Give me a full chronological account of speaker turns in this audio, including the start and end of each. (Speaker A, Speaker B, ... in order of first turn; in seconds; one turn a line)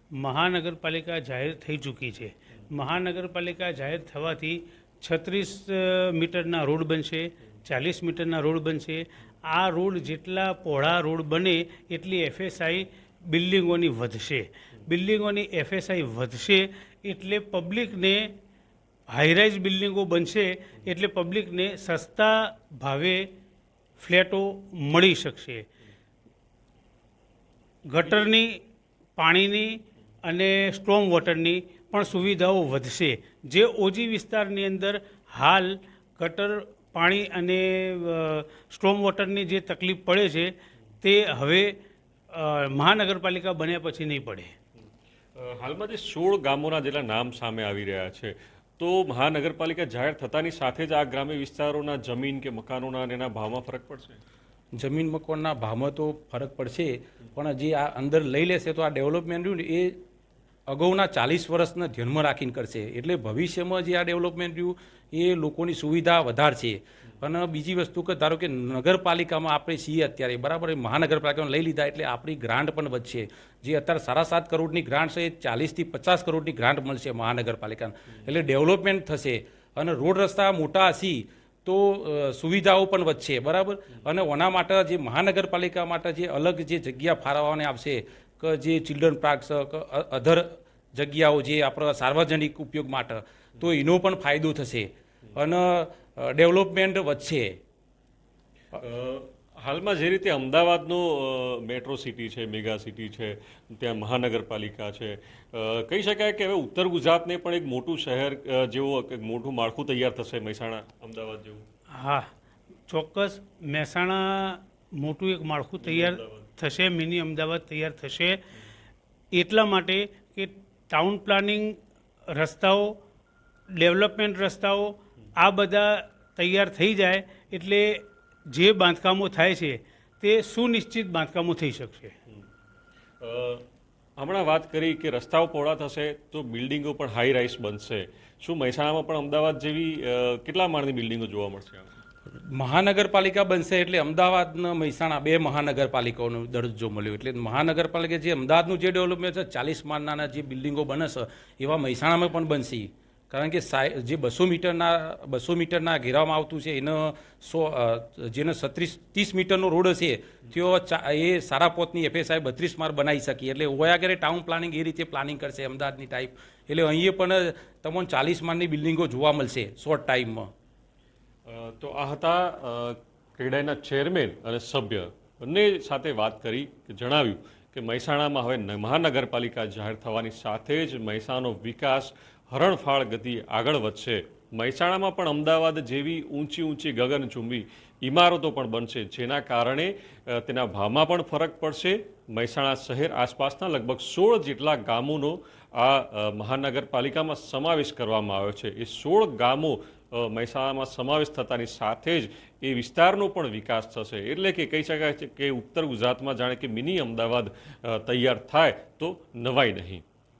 Speaker A: 0.1-18.3
Speaker A: 19.1-23.2
Speaker A: 24.0-25.6
Speaker A: 27.9-28.6
Speaker A: 29.2-41.8
Speaker A: 42.3-44.5
Speaker B: 45.4-54.2
Speaker C: 54.8-60.0
Speaker C: 60.7-97.5
Speaker B: 98.7-111.6
Speaker A: 111.9-112.3
Speaker A: 112.9-118.4
Speaker B: 115.8-116.5
Speaker A: 119.3-121.8
Speaker A: 122.3-123.0
Speaker A: 123.7-132.1
Speaker B: 133.2-133.7
Speaker B: 134.2-141.9
Speaker C: 142.3-170.5
Speaker B: 171.5-210.0